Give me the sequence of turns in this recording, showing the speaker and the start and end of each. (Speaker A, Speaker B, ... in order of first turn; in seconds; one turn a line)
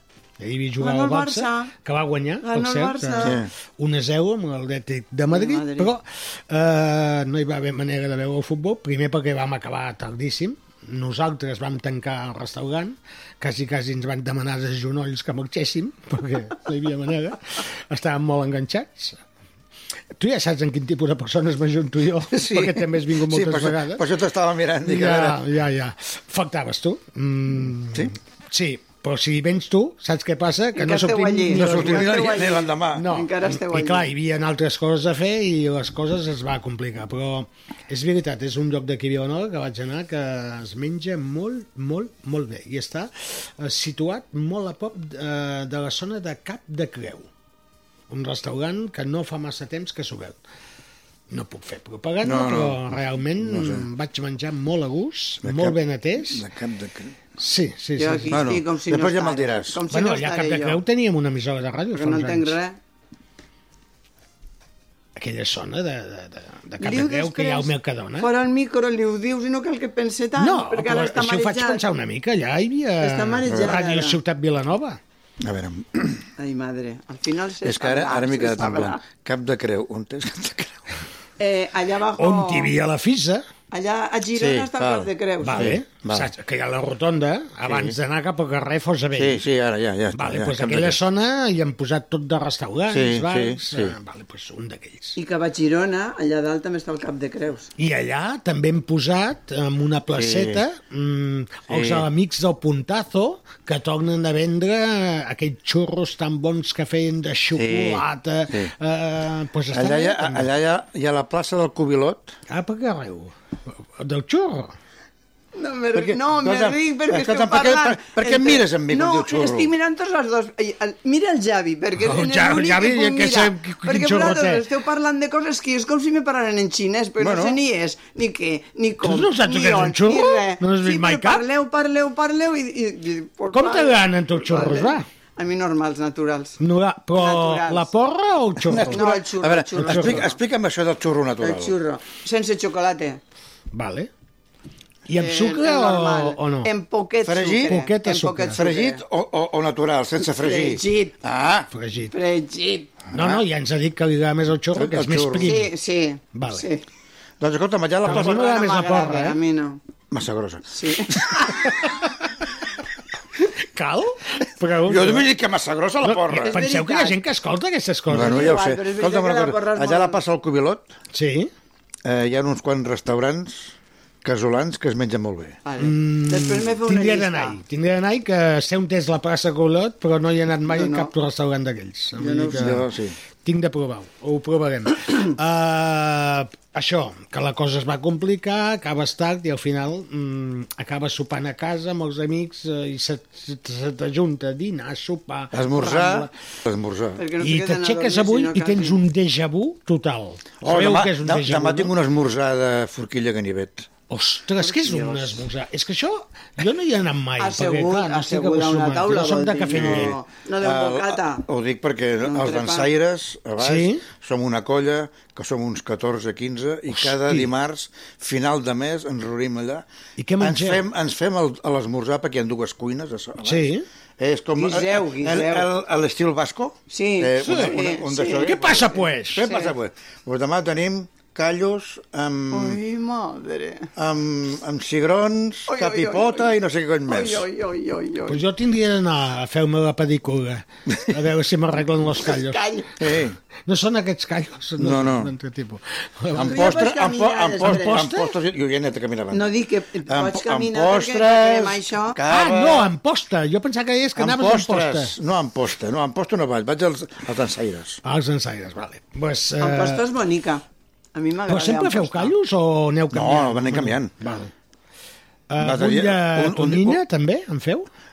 Speaker A: 0.4-19.2
Speaker B: 0.8-1.7
Speaker B: 2.4-3.4
Speaker C: 3.2-3.5
Speaker B: 5.3-5.9
Speaker A: 20.2-24.0
Speaker C: 22.3-25.4
Speaker A: 24.8-47.3
Speaker B: 30.8-34.1
Speaker C: 31.5-33.1
Speaker A: 48.1-50.4
Speaker A: 51.3-56.4
Speaker C: 52.2-52.8
Speaker C: 53.4-53.9
Speaker C: 55.4-57.2
Speaker A: 57.4-58.5
Speaker B: 58.0-60.8
Speaker C: 58.3-59.8
Speaker A: 59.9-62.6
Speaker B: 61.9-62.8
Speaker A: 65.2-68.3
Speaker B: 66.8-71.8
Speaker A: 70.4-75.0
Speaker B: 73.0-74.2
Speaker C: 73.5-73.7
Speaker C: 75.4-76.3
Speaker B: 76.4-79.0
Speaker C: 77.6-80.8
Speaker B: 81.4-82.7
Speaker A: 82.2-83.5
Speaker B: 83.7-85.8
Speaker C: 84.3-86.3
Speaker A: 85.4-89.4
Speaker C: 87.7-88.0
Speaker C: 89.2-91.0
Speaker A: 90.1-95.2
Speaker C: 92.9-94.0
Speaker B: 95.2-97.7
Speaker A: 97.8-110.5
Speaker C: 100.1-100.6
Speaker C: 101.7-102.1
Speaker C: 107.6-108.7
Speaker C: 109.7-112.3
Speaker A: 112.5-113.3
Speaker A: 114.0-114.7
Speaker B: 115.5-136.6
Speaker C: 115.9-119.7
Speaker A: 122.0-124.6
Speaker C: 127.2-127.6
Speaker A: 129.0-131.4
Speaker A: 133.5-135.0
Speaker A: 136.6-139.0
Speaker B: 137.2-137.9
Speaker C: 138.7-141.8
Speaker B: 138.7-140.4
Speaker A: 139.8-140.3
Speaker B: 141.4-143.2
Speaker A: 143.7-144.1
Speaker A: 145.1-146.7
Speaker B: 145.2-149.0
Speaker C: 147.2-147.8
Speaker A: 147.6-148.6
Speaker C: 148.5-151.7
Speaker B: 150.2-151.1
Speaker A: 151.7-152.2
Speaker B: 152.1-152.9
Speaker C: 153.1-153.4
Speaker A: 153.1-155.7
Speaker C: 154.8-155.6
Speaker B: 155.4-156.8
Speaker A: 156.3-156.7
Speaker C: 157.4-158.5
Speaker B: 158.0-159.8
Speaker A: 158.1-159.4
Speaker C: 160.1-161.4
Speaker B: 160.7-161.7
Speaker A: 163.7-165.3
Speaker C: 164.9-166.6
Speaker A: 166.0-168.6
Speaker B: 166.4-167.2
Speaker C: 168.1-170.9
Speaker B: 168.1-170.2
Speaker A: 171.1-171.5
Speaker C: 172.1-175.6
Speaker B: 175.7-177.6
Speaker A: 175.8-182.8
Speaker B: 180.7-181.1
Speaker B: 182.2-182.7
Speaker C: 182.5-183.2
Speaker A: 183.4-196.3
Speaker C: 195.5-197.2
Speaker B: 197.2-199.0
Speaker A: 197.4-201.9
Speaker C: 200.6-203.9
Speaker A: 204.1-210.2
Speaker B: 204.6-205.3
Speaker B: 207.4-211.4
Speaker C: 209.7-219.9
Speaker B: 212.2-212.9
Speaker A: 213.6-214.0
Speaker A: 216.9-217.5
Speaker A: 220.2-220.8
Speaker C: 220.4-232.8
Speaker A: 223.4-223.8
Speaker B: 224.6-225.7
Speaker B: 226.9-229.7
Speaker A: 227.4-227.8
Speaker A: 228.3-229.5
Speaker B: 232.5-233.9
Speaker C: 234.0-237.5
Speaker B: 235.7-236.5
Speaker B: 237.1-238.4
Speaker A: 238.3-242.6
Speaker B: 242.2-242.9
Speaker C: 243.0-243.4
Speaker A: 243.7-246.8
Speaker C: 244.8-245.3
Speaker C: 246.3-249.6
Speaker B: 246.4-248.1
Speaker A: 247.6-248.3
Speaker B: 249.3-252.2
Speaker C: 250.1-252.9
Speaker A: 252.3-255.1
Speaker C: 254.2-258.0
Speaker A: 258.0-260.0
Speaker B: 259.6-260.6
Speaker B: 261.1-262.3
Speaker A: 261.5-264.5
Speaker C: 263.1-264.1
Speaker A: 265.5-267.9
Speaker C: 265.6-267.0